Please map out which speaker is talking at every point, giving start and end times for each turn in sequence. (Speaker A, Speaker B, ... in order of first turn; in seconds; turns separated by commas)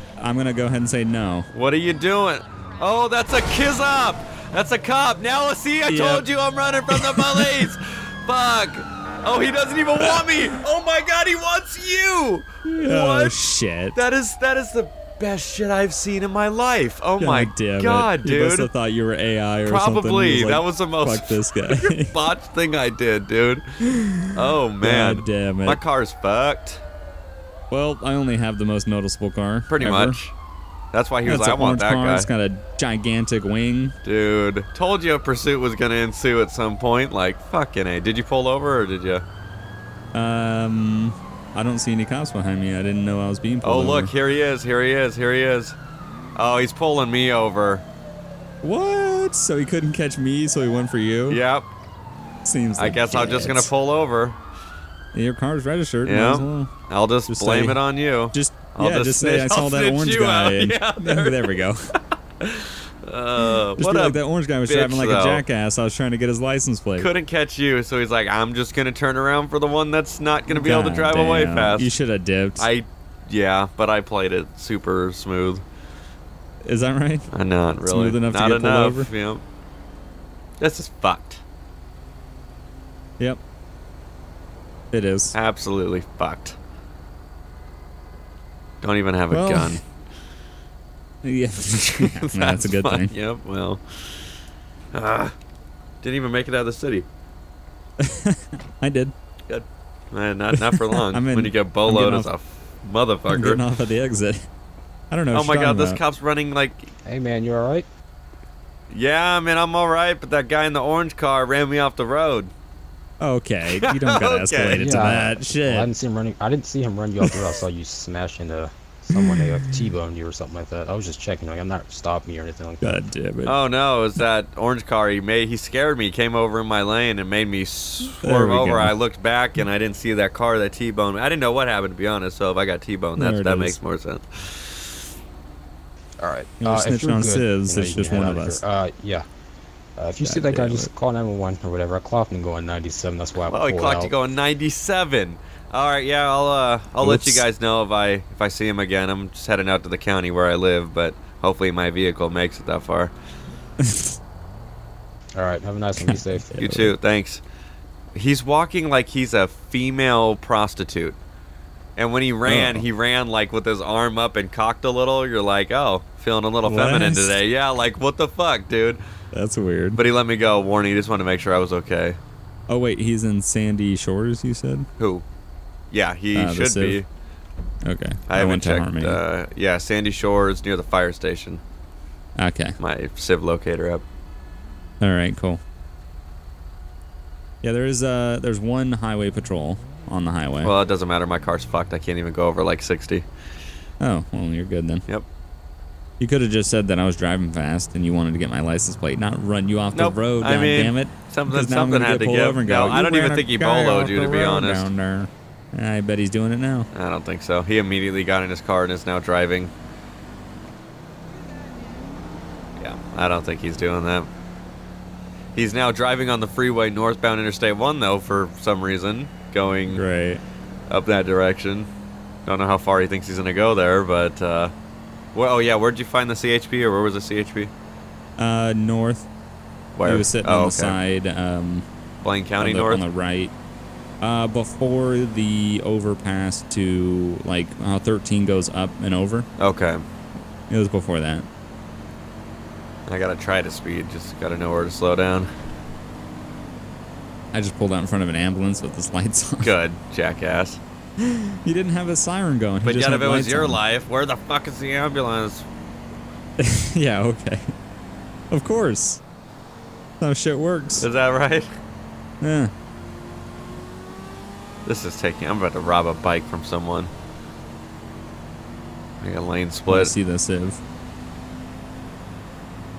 Speaker A: 0.2-1.5, Speaker B: 1.5-13.3, Speaker A: 5.9-6.2, Speaker A: 6.9-7.7, Speaker A: 12.7-14.0, Speaker B: 13.9-18.7, Speaker A: 17.2-22.1, Speaker B: 19.6-23.8, Speaker A: 23.8-25.8, Speaker B: 24.3-26.8, Speaker A: 27.7-30.2, Speaker B: 29.7-30.3, Speaker B: 30.9-32.3, Speaker A: 31.2-33.9, Speaker B: 34.0-39.2, Speaker A: 40.1-44.1, Speaker B: 43.6-45.8, Speaker B: 46.3-47.8, Speaker A: 48.6-51.4, Speaker B: 51.3-51.7, Speaker A: 52.4-53.7, Speaker B: 52.8-54.4, Speaker A: 55.1-56.7, Speaker B: 56.0-61.6, Speaker A: 57.3-61.9, Speaker B: 62.4-65.4, Speaker A: 63.8-67.1, Speaker B: 67.0-71.9, Speaker A: 70.5-72.7, Speaker B: 72.6-75.6, Speaker A: 76.6-77.3, Speaker B: 77.3-79.4, Speaker A: 77.8-79.1, Speaker B: 80.6-81.4, Speaker A: 84.9-85.3, Speaker B: 85.3-86.6, Speaker B: 88.8-89.8, Speaker A: 89.3-89.8, Speaker A: 91.2-93.1, Speaker B: 91.7-94.3, Speaker B: 94.9-95.3, Speaker B: 96.0-97.0, Speaker A: 98.0-99.1, Speaker B: 99.5-103.6, Speaker A: 100.5-102.3, Speaker A: 103.3-104.5, Speaker A: 105.1-106.0, Speaker B: 105.3-106.9, Speaker C: 107.0-107.9, Speaker B: 108.9-112.5, Speaker A: 113.2-115.9, Speaker B: 113.8-114.9, Speaker C: 114.8-122.9, Speaker A: 119.1-119.8, Speaker A: 122.8-123.5, Speaker B: 123.5-135.0, Speaker A: 128.2-128.9, Speaker A: 133.2-133.8, Speaker C: 136.2-139.2, Speaker A: 136.6-138.6, Speaker C: 140.0-144.1, Speaker A: 140.2-140.9, Speaker B: 143.5-153.1, Speaker A: 147.0-147.4, Speaker A: 153.8-154.1, Speaker C: 155.3-156.6, Speaker A: 156.0-156.9, Speaker B: 156.6-157.4, Speaker B: 158.1-161.2, Speaker B: 161.9-169.0, Speaker A: 162.4-162.8, Speaker A: 166.6-167.4, Speaker A: 169.3-170.0, Speaker B: 169.9-172.2, Speaker A: 172.7-174.9, Speaker B: 175.0-175.2, Speaker B: 175.9-177.1, Speaker A: 176.3-177.0, Speaker A: 177.8-179.2, Speaker B: 178.3-181.6, Speaker A: 182.4-182.8, Speaker B: 182.8-184.0, Speaker A: 185.0-185.6, Speaker A: 187.6-190.7, Speaker B: 190.6-193.3, Speaker A: 194.0-195.0, Speaker A: 196.2-206.9, Speaker B: 199.9-204.9, Speaker B: 206.9-209.7, Speaker B: 212.8-214.3, Speaker B: 215.5-220.0, Speaker A: 219.9-220.4, Speaker B: 220.9-221.9, Speaker B: 222.4-224.7, Speaker B: 225.3-227.7, Speaker A: 228.4-229.3, Speaker B: 229.9-231.0, Speaker A: 230.0-231.8, Speaker B: 232.2-233.0, Speaker A: 232.6-233.5, Speaker A: 234.2-239.5, Speaker B: 239.6-240.0, Speaker A: 240.7-241.5, Speaker B: 243.1-245.5, Speaker A: 247.5-249.7, Speaker B: 249.6-250.8, Speaker A: 251.2-253.8, Speaker B: 252.8-255.7, Speaker A: 256.6-257.7, Speaker A: 258.5-259.2, Speaker A: 260.2-261.1, Speaker B: 261.0-261.7, Speaker A: 262.4-262.7, Speaker B: 264.8-267.1, Speaker B: 269.2-270.1, Speaker A: 269.9-270.8